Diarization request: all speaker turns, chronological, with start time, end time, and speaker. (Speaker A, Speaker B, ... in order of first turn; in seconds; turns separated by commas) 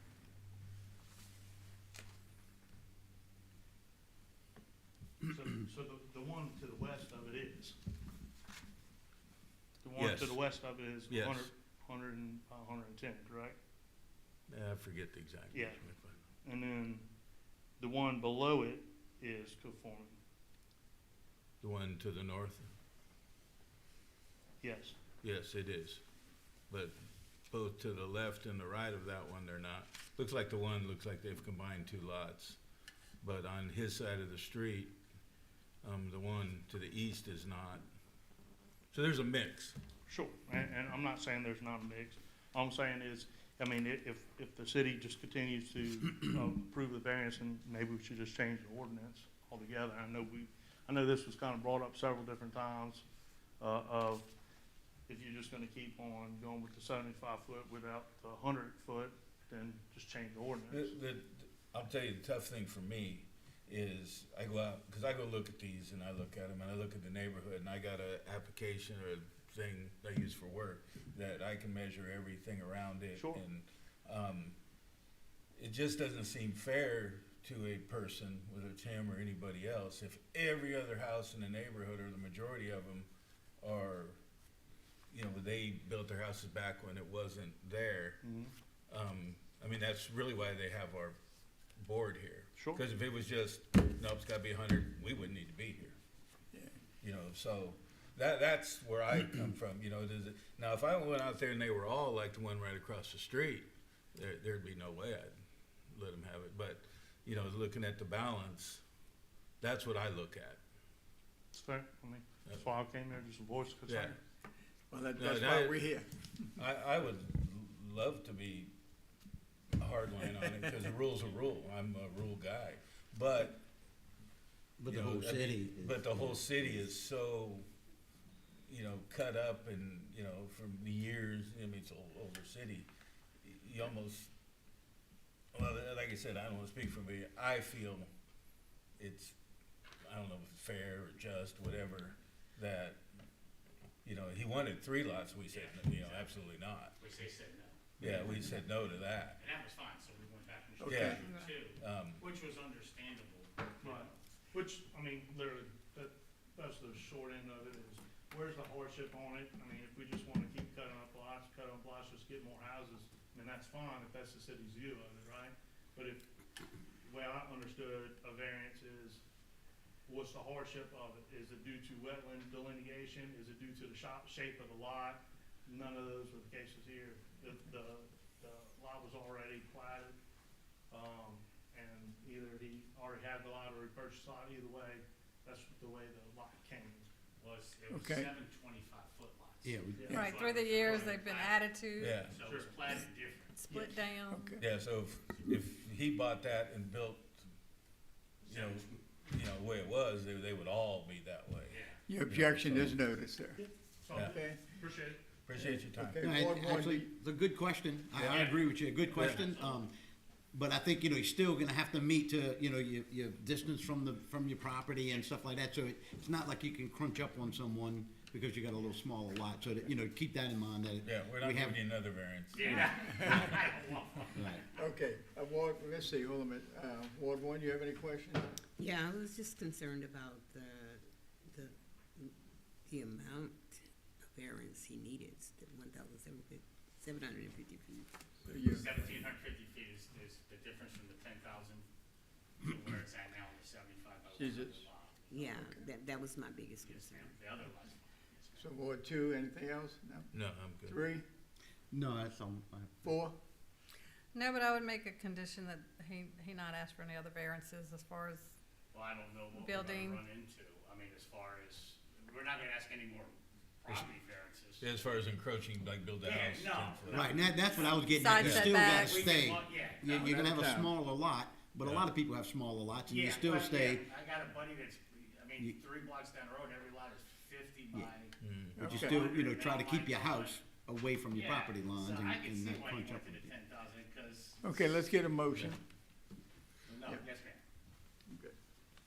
Speaker A: 5.2-7.8, Speaker A: 9.8-13.6, Speaker B: 9.9-10.4, Speaker B: 11.1-11.5, Speaker B: 14.5-16.2, Speaker A: 15.5-15.8, Speaker A: 16.4-17.0, Speaker A: 17.8-20.2, Speaker B: 21.6-22.7, Speaker A: 24.6-25.0, Speaker B: 25.2-26.0, Speaker B: 26.7-26.9, Speaker B: 27.5-32.6, Speaker B: 33.2-35.0, Speaker B: 35.8-37.8, Speaker B: 38.9-39.8, Speaker A: 40.1-53.0, Speaker A: 53.6-54.3, Speaker A: 55.1-61.0, Speaker B: 60.7-74.6, Speaker A: 73.1-73.4, Speaker B: 75.5-83.1, Speaker B: 83.6-84.2, Speaker B: 85.1-88.2, Speaker A: 88.2-88.5, Speaker B: 88.9-91.2, Speaker B: 91.8-96.0, Speaker A: 92.6-92.8, Speaker B: 97.0-105.3, Speaker B: 105.9-108.8, Speaker B: 109.6-110.6, Speaker A: 111.5-114.2, Speaker B: 113.9-114.1, Speaker C: 114.9-116.5, Speaker B: 115.2-115.8, Speaker B: 116.6-118.7, Speaker B: 119.8-123.6, Speaker D: 124.8-126.7, Speaker B: 124.8-127.7, Speaker B: 128.7-132.9, Speaker B: 133.4-134.3, Speaker B: 135.5-138.1, Speaker B: 139.0-139.3, Speaker B: 140.0-143.0, Speaker B: 144.0-146.9, Speaker E: 145.5-146.3, Speaker E: 147.0-147.8, Speaker B: 148.0-149.4, Speaker E: 149.4-154.1, Speaker C: 150.8-151.2, Speaker B: 150.9-151.2, Speaker B: 151.8-152.2, Speaker A: 153.8-166.2, Speaker A: 167.0-169.2, Speaker A: 170.1-180.2, Speaker A: 180.9-187.1, Speaker E: 187.4-193.9, Speaker C: 187.9-188.3, Speaker D: 189.6-190.2, Speaker A: 189.9-190.2, Speaker F: 190.1-192.3, Speaker B: 192.0-192.3, Speaker A: 192.4-192.8, Speaker F: 193.5-194.6, Speaker C: 194.3-194.6, Speaker B: 194.6-197.4, Speaker E: 198.4-199.0, Speaker B: 198.5-202.9, Speaker E: 201.7-202.0, Speaker C: 202.1-203.6, Speaker A: 203.6-205.2, Speaker C: 204.2-204.6, Speaker B: 205.4-206.3, Speaker C: 205.6-207.1, Speaker D: 206.2-209.9, Speaker B: 208.2-208.4, Speaker E: 208.3-209.8, Speaker B: 209.1-209.4, Speaker D: 210.5-221.8, Speaker B: 221.0-223.0, Speaker E: 222.5-224.8, Speaker C: 222.8-223.1, Speaker C: 224.8-228.5, Speaker G: 228.8-232.3, Speaker G: 232.9-238.1, Speaker C: 238.4-239.1, Speaker E: 238.6-241.8, Speaker E: 242.6-245.6, Speaker C: 244.3-244.9, Speaker G: 245.3-247.4, Speaker E: 246.8-248.7, Speaker C: 248.6-251.2, Speaker B: 250.3-251.0, Speaker D: 251.9-253.2, Speaker C: 253.0-253.4, Speaker F: 254.3-258.5, Speaker E: 258.9-264.9, Speaker F: 259.5-260.2, Speaker B: 264.8-267.4, Speaker E: 266.2-270.6, Speaker D: 267.1-274.1, Speaker F: 268.1-269.2, Speaker B: 268.3-268.7, Speaker C: 270.4-270.9, Speaker E: 273.1-280.6, Speaker B: 278.4-278.9, Speaker C: 278.8-279.2, Speaker D: 278.8-283.4, Speaker E: 281.3-285.0, Speaker C: 284.6-285.8, Speaker E: 286.9-287.6, Speaker C: 288.3-288.6